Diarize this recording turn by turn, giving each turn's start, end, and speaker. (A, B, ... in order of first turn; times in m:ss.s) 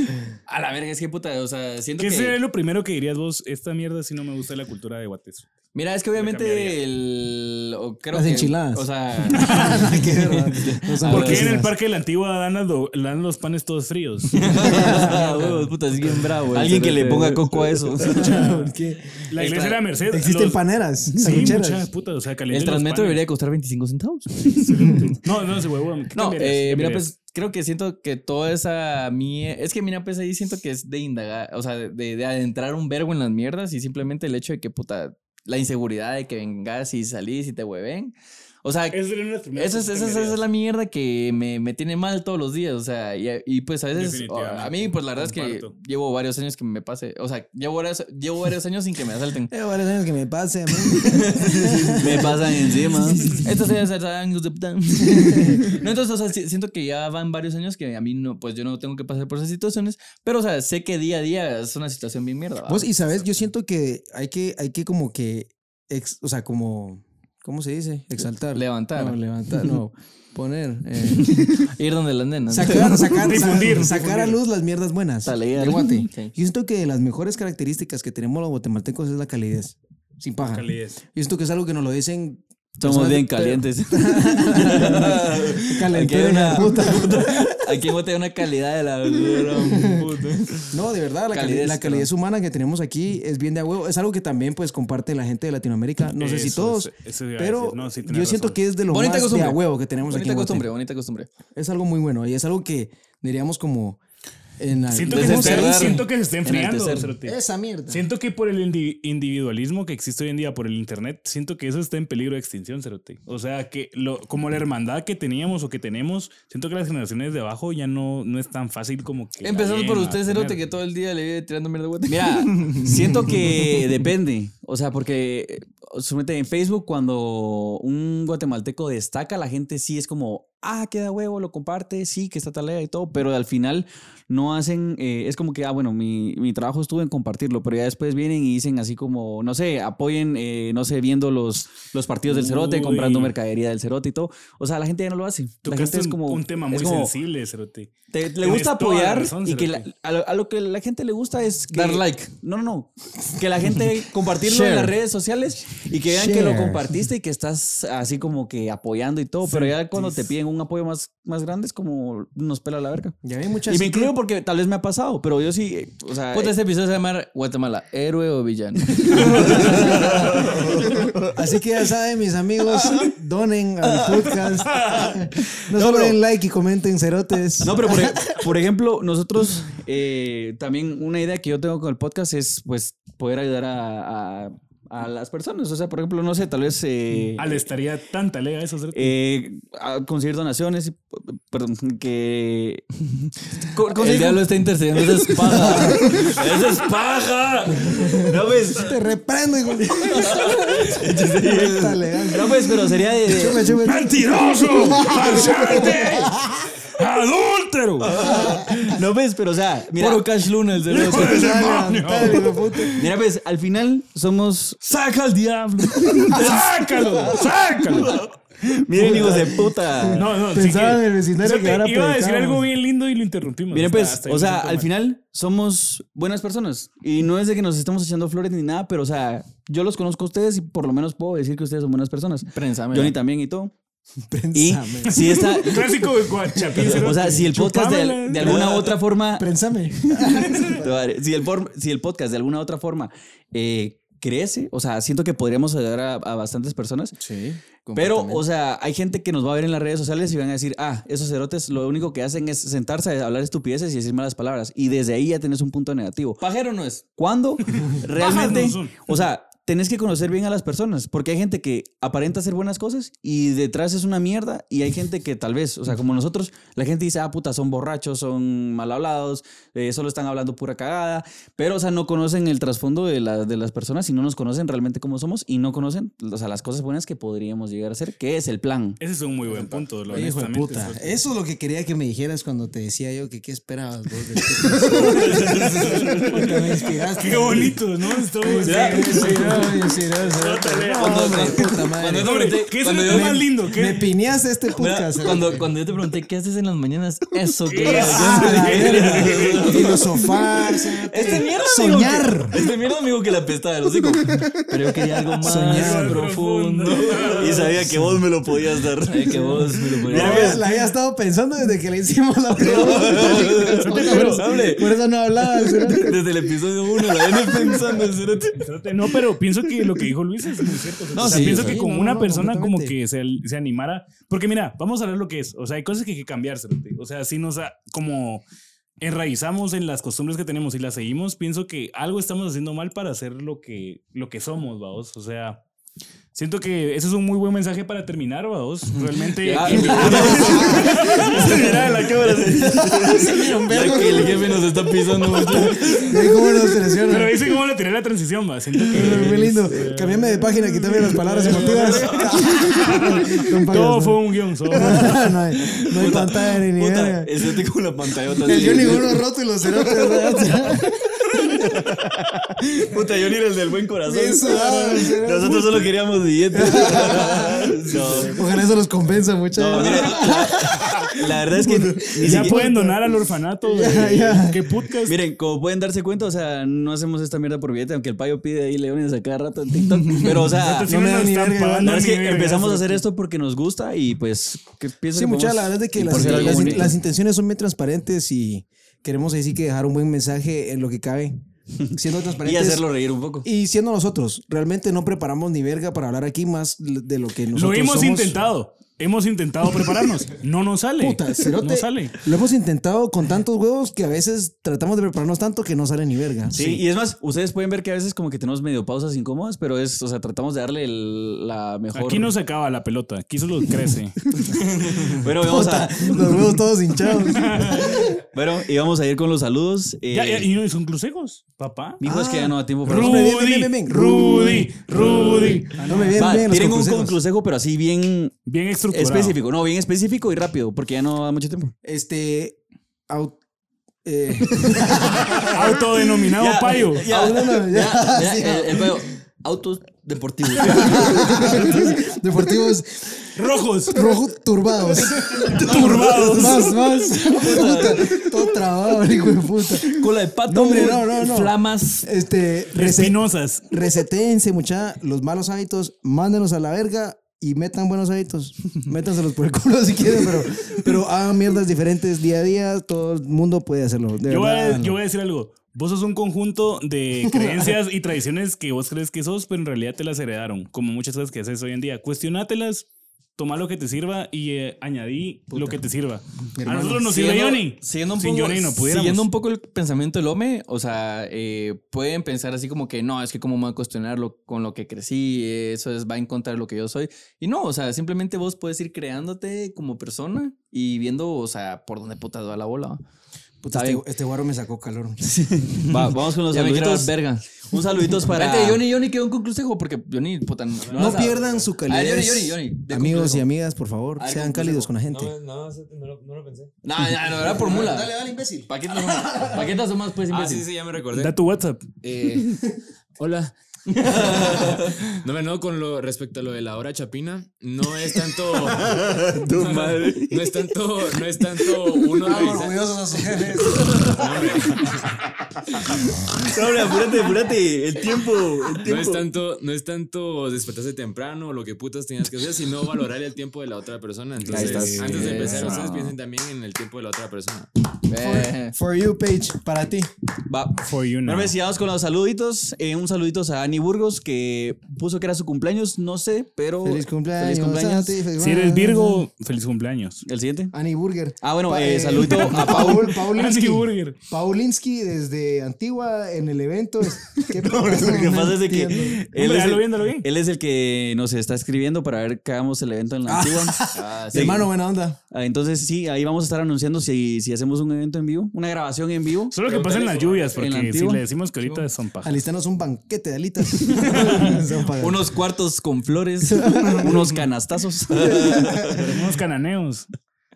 0:00.5-0:02.4 A
0:02.0-0:05.5 B
0:05.8-0:11.6 A
0:06.2-0:06.8 B
0:08.1-0:11.7 C
0:09.3-0:09.9 B
0:11.0-0:16.3 B
0:14.4-0:18.2 A
0:14.6-0:15.3 C
0:16.5-0:18.4 D
0:18.0-0:19.3 C
0:18.2-0:18.7 B
0:19.3-0:23.2 B
0:19.4-0:19.8 A
0:20.1-0:21.9 C
0:22.5-0:25.1 A
0:24.5-0:27.1 B
0:24.7-0:25.1 C
0:26.2-0:39.0 A
0:38.9-0:40.4 B
0:39.6-0:49.5 A
0:43.9-0:45.7 B
0:49.5-0:52.4 C
0:50.9-0:52.3 A
0:52.0-0:53.4 D
0:53.1-1:03.2 A
0:55.1-0:55.7 C
1:02.7-1:11.7 C
1:08.5-1:09.8 A
1:11.0-1:13.8 A
1:12.5-1:27.8 C
1:13.1-1:14.4 B
1:15.3-1:15.9 D
1:15.3-1:16.3 A
1:20.4-1:21.0 B
1:22.8-1:27.5 D
1:25.9-1:30.8 A
1:29.2-1:30.1 C
1:30.7-1:40.7 C
1:31.3-1:32.1 A
1:36.2-1:38.6 B
1:38.9-1:41.3 A
1:41.5-1:44.0 C
1:44.6-1:46.0 C
1:44.9-1:47.4 B
1:45.1-1:47.1 D
1:45.1-1:45.9 A
1:47.2-1:48.1 C
1:47.9-2:00.6 B
1:59.4-2:04.0 A
2:02.1-2:27.1 D
2:22.3-2:23.3 B
2:25.6-2:29.9 B
2:28.1-2:43.2 D
2:31.7-2:32.3 A
2:34.4-2:34.9 A
2:36.1-2:37.0 C
2:39.4-2:40.2 B
2:43.2-2:44.1 C
2:43.7-2:46.6 D
2:46.3-2:50.7 A
2:49.1-2:51.3 D
2:49.1-2:58.3 C
2:55.7-2:56.2 D
2:57.6-3:07.7 D
3:07.4-3:09.2 B
3:08.9-3:12.9 D
3:13.6-3:14.6 D
3:13.8-3:16.8 A
3:15.4-3:19.0 D
3:15.5-3:16.3 C
3:17.9-3:26.6 C
3:20.3-3:22.0 A
3:20.4-3:21.1 D
3:22.3-3:23.8 D
3:23.8-3:28.2 B
3:28.0-3:30.3 D
3:28.2-3:28.9 C
3:30.0-3:31.5 A
3:30.9-3:32.7 B
3:30.9-3:33.0 C
3:33.0-3:34.9 D
3:34.9-3:38.3 B
3:36.0-3:36.7 D
3:38.1-3:40.3 D
3:38.9-3:42.7 C
3:38.9-3:39.5 B
3:40.1-3:44.9 B
3:43.7-3:53.7 D
3:52.5-3:53.2 A
3:54.3-3:55.5 C
3:54.5-3:56.1 D
3:55.1-3:58.7 B
3:56.8-4:07.2 D
3:58.4-4:01.0 C
4:07.2-4:07.6 C
4:07.8-4:08.4 A
4:08.0-4:16.4 D
4:16.4-4:17.0 A
4:17.2-4:39.0 D
4:17.8-4:19.1 B
4:39.0-4:41.2 B
4:39.5-4:52.4 C
4:45.0-4:46.1 D
4:45.1-4:46.4 A
4:45.4-4:54.1 B
4:48.5-4:49.8 A
4:50.9-4:53.7 A
4:53.0-4:55.7 C
4:54.7-5:07.8 A
4:57.7-5:00.1 B
4:57.9-5:02.6 C
5:04.3-5:06.2 C
5:05.5-5:07.8 B
5:07.4-5:10.6 D
5:09.0-5:10.6 A
5:09.2-5:16.2 C
5:10.3-5:10.6 B
5:12.6-5:15.0 A
5:12.7-5:13.8 D
5:13.8-5:14.6 B
5:15.6-5:18.6 A
5:16.9-5:17.7 D
5:17.5-5:18.0 C
5:18.6-5:28.4 B
5:21.1-5:21.8 D
5:21.2-5:21.7 A
5:21.4-5:23.0 C
5:29.0-5:35.6 B
5:36.3-5:42.7 B
5:39.0-5:46.3 A
5:39.5-5:41.0 D
5:40.0-5:47.4 C
5:42.0-5:44.3 D
5:47.1-5:55.4 B
5:48.9-5:57.6 C
5:51.7-5:52.5 D
5:56.0-5:59.2 D
5:58.2-5:59.1 A
5:58.4-6:02.0 C
6:00.0-6:00.7 D
6:01.4-6:08.4 D
6:04.0-6:05.7 C
6:05.4-6:05.9 B
6:06.5-6:14.7 C
6:07.9-6:08.3 B
6:09.6-6:12.6 D
6:12.1-6:15.2 B
6:15.1-6:21.0 D
6:20.5-6:23.0 B
6:20.8-6:22.0 C
6:21.8-6:27.0 D
6:25.1-6:31.4 C
6:26.0-6:27.0 A
6:31.8-6:33.5 D
6:31.9-6:32.9 C
6:33.4-6:38.4 C
6:37.5-6:42.2 B
6:41.0-6:46.8 C
6:46.5-6:52.3 D
6:51.9-6:54.2 B
6:54.4-6:58.2 C
6:54.8-6:56.4 D
6:57.2-6:58.2 B
6:58.3-7:00.5 D
7:00.1-7:02.0 B
7:02.0-7:03.3 D
7:02.0-7:07.2 C
7:02.9-7:06.4 B
7:06.2-7:08.4 D
7:08.5-7:09.4 B
7:08.9-7:11.7 D
7:11.8-7:12.6 C
7:13.1-7:13.4 C
7:14.0-7:16.0 C
7:15.4-7:17.0 B
7:16.4-7:17.6 D
7:17.0-7:19.1 C
7:17.2-7:21.6 A
7:20.5-7:21.4 D
7:20.6-7:23.2 C
7:23.3-7:24.2 B
7:23.9-7:45.0 C
7:25.4-7:26.8 B
7:25.5-7:28.6 A
7:29.7-7:32.1 A
7:32.7-7:33.7 B
7:44.3-7:59.3 B
7:47.2-7:47.7 C
7:55.5-7:55.8 C
7:56.6-7:57.1 C
7:57.1-8:13.0 A
8:13.6-8:15.6 C
8:13.7-8:14.0 A
8:15.2-8:18.8 D
8:15.9-8:23.5 A
8:20.8-8:21.8 E
8:20.9-8:25.4 C
8:24.2-8:24.9 A
8:25.1-8:26.7 E
8:26.8-8:28.1 A
8:27.4-8:29.7 C
8:28.7-8:30.7 A
8:30.3-8:31.4 E
8:31.1-8:31.9 B
8:32.0-8:43.1 E
8:33.9-8:34.9 A
8:38.7-8:40.4 D
8:42.2-8:44.5 C
8:43.7-8:44.2 D
8:44.0-8:45.2 E
8:45.9-8:49.2 D
8:48.8-8:57.7 E
8:54.4-8:55.9 B
8:54.5-8:56.1 D
8:58.1-8:58.8 A
8:58.1-9:00.1 C
9:00.5-9:08.0 D
9:00.8-9:01.6 B
9:06.8-9:09.3 C
9:08.4-9:10.2 B
9:10.2-9:10.7 D
9:10.7-9:19.3 C
9:11.4-9:13.1 D
9:12.2-9:14.2 B
9:17.6-9:24.7 D
9:19.3-9:20.3 B
9:23.3-9:25.2 C
9:23.9-9:24.6 A
9:25.3-9:29.6 D
9:29.5-9:32.4 B
9:29.6-9:30.6 E
9:30.5-9:31.2 D
9:32.2-9:35.3 C
9:34.0-9:34.6 B
9:35.0-9:37.4 A
9:36.4-9:37.3 C
9:37.0-9:39.0 D
9:38.2-9:39.1 C
9:38.8-9:40.1 B